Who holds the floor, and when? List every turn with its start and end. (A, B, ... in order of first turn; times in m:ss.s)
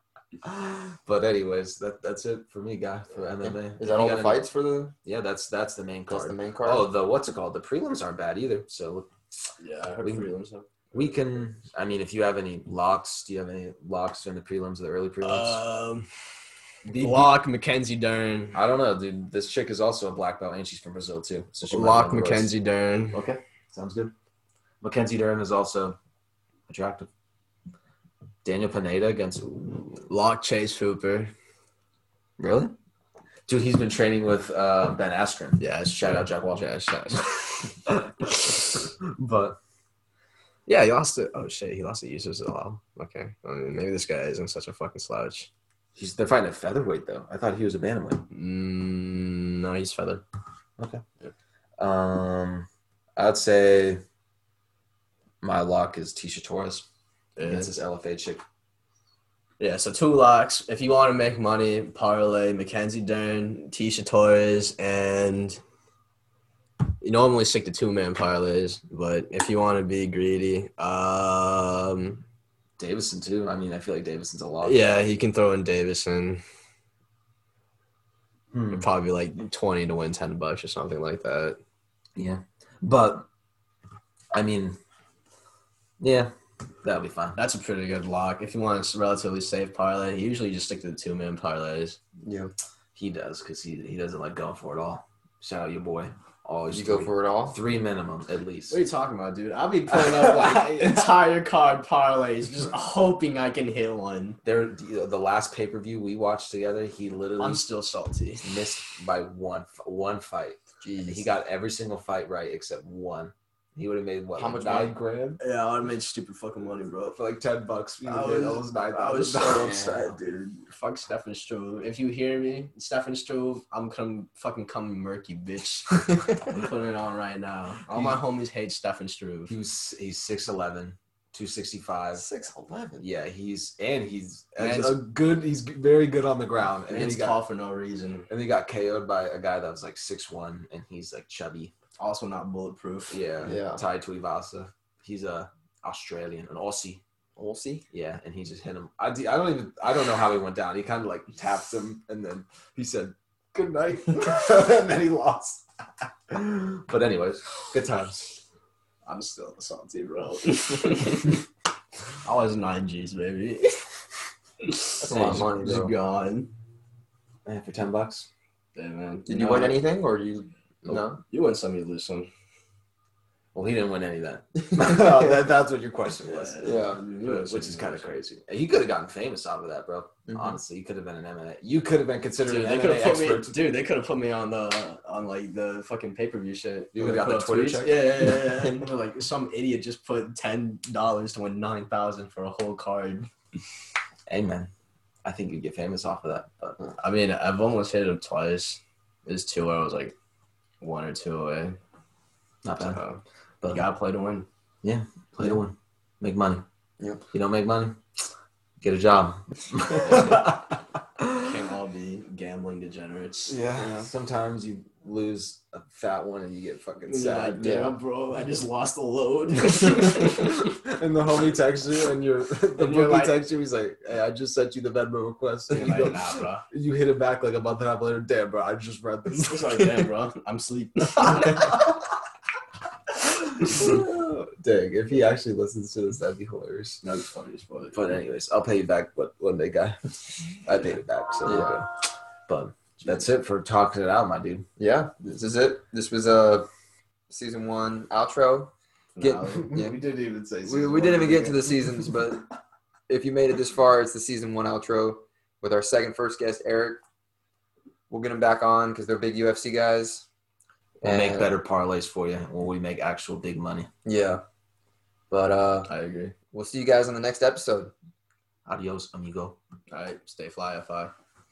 0:00.4-0:04.5 A
0:03.4-0:04.9 B
0:05.0-0:09.1 A
0:06.1-0:06.9 B
0:09.6-0:11.1 C
0:10.0-0:10.3 A
0:10.9-0:15.6 A
0:15.2-0:16.1 C
0:16.9-0:17.3 A
0:16.9-0:18.6 C
0:18.5-0:22.5 A
0:21.7-0:23.3 C
0:23.1-0:24.1 A
0:24.8-0:26.0 A
0:26.7-0:27.1 A
0:28.4-0:30.0 A
0:30.1-0:31.3 C
0:32.4-0:32.7 A
0:33.5-0:36.7 A
0:35.6-0:37.5 C
0:37.9-0:39.6 A
0:40.7-0:45.5 C
0:46.0-0:48.3 A
0:48.3-0:50.2 C
0:50.8-0:51.0 A
0:51.8-0:54.0 A
0:55.4-0:56.9 A
0:57.4-0:57.7 C
0:57.4-0:58.4 A
0:59.6-1:05.6 C
1:07.0-1:12.2 C
1:12.8-1:15.0 A
1:14.6-1:16.4 C
1:18.5-1:18.9 A
1:18.7-1:21.6 C
1:22.2-1:23.3 A
1:24.3-1:24.8 A
1:26.0-1:26.3 A
1:26.8-1:27.4 A
1:27.4-1:32.0 C
1:32.2-1:32.5 B
1:32.9-1:38.8 A
1:36.7-1:37.6 B
1:38.7-1:44.4 C
1:40.0-1:41.0 A
1:44.4-1:47.6 A
1:47.4-1:48.4 C
1:48.4-1:55.4 A
1:50.8-1:51.3 B
1:54.4-1:55.0 B
1:55.4-1:57.2 C
1:57.1-2:00.0 A
1:58.0-2:09.5 C
1:59.4-2:00.1 B
2:07.9-2:08.2 A
2:09.5-2:12.2 A
2:12.1-2:13.0 B
2:13.0-2:17.4 A
2:14.6-2:15.0 C
2:16.9-2:18.3 C
2:18.3-2:21.7 A
2:22.0-2:23.3 C
2:23.1-2:27.0 A
2:23.4-2:23.8 B
2:27.4-2:27.8 B
2:27.9-2:38.4 A
2:39.0-2:41.4 C
2:42.2-2:43.9 C
2:44.6-2:46.5 C
2:45.0-2:45.9 B
2:45.1-2:45.6 A
2:47.4-2:48.3 A
2:48.7-2:49.8 C
2:49.3-2:51.2 B
2:51.3-2:52.3 C
2:53.5-3:03.6 A
2:56.2-2:58.1 C
2:56.6-2:57.0 B
3:00.3-3:00.6 B
3:02.4-3:13.3 C
3:06.9-3:08.2 A
3:14.3-3:14.7 A
3:15.2-3:16.9 A
3:17.0-3:20.1 C
3:20.8-3:21.8 C
3:22.6-3:23.0 A
3:22.8-3:24.5 C
3:24.8-3:26.6 A
3:27.3-3:28.0 A
3:28.8-3:31.6 A
3:29.9-3:30.5 C
3:31.4-3:33.9 C
3:33.5-3:37.8 A
3:37.1-3:40.7 C
3:37.6-3:37.9 B
3:39.6-3:50.1 A
3:42.8-3:43.4 C
3:45.7-3:46.6 C
3:49.3-3:51.7 C
3:51.2-3:51.9 A
3:53.2-3:57.0 A
3:57.0-3:58.2 C
3:57.9-4:01.9 A
4:01.4-4:01.8 B
4:02.5-4:04.6 A
4:04.8-4:06.7 B
4:07.3-4:10.0 B
4:09.1-4:09.7 C
4:09.4-4:12.1 A
4:10.6-4:12.4 B
4:13.1-4:17.0 B
4:18.1-4:20.3 B
4:21.0-4:21.5 B
4:21.0-4:23.9 A
4:24.0-4:24.4 B
4:25.3-4:25.9 B
4:25.9-4:26.3 C
4:26.5-4:27.9 B
4:28.6-4:29.6 A
4:29.9-4:31.1 C